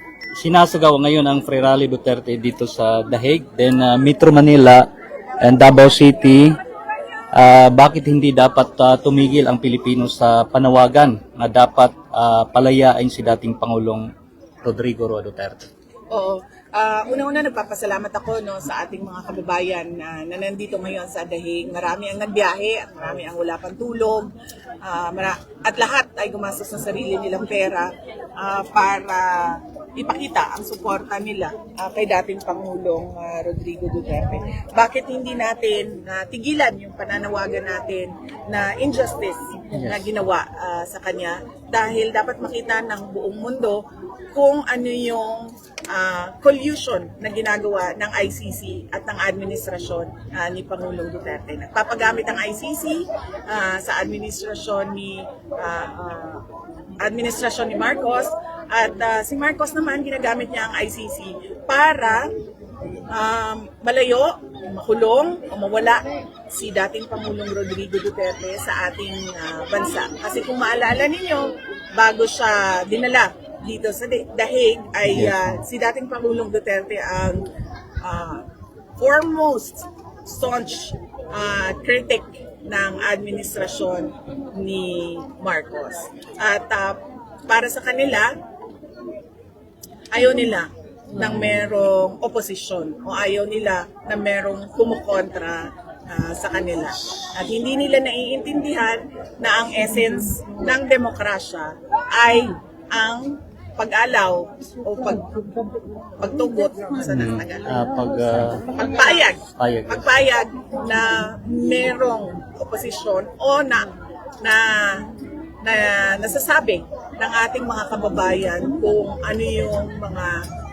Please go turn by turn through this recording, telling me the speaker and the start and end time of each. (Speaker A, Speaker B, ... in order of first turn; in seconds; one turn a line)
Speaker A: 0.4-4.9
Speaker A: 5.4-6.5
Speaker A: 7.3-14.1
Speaker A: 14.6-15.7
Speaker B: 16.1-56.4
Speaker B: 57.0-62.3
Speaker B: 63.1-77.4
Speaker A: 75.1-75.5
Speaker B: 78.0-78.4
Speaker B: 79.0-88.3
Speaker B: 90.1-105.3
Speaker B: 106.2-107.7
Speaker A: 107.1-108.7
Speaker B: 108.7-113.9
Speaker A: 109.5-110.0
Speaker B: 114.4-115.1
Speaker B: 115.6-120.3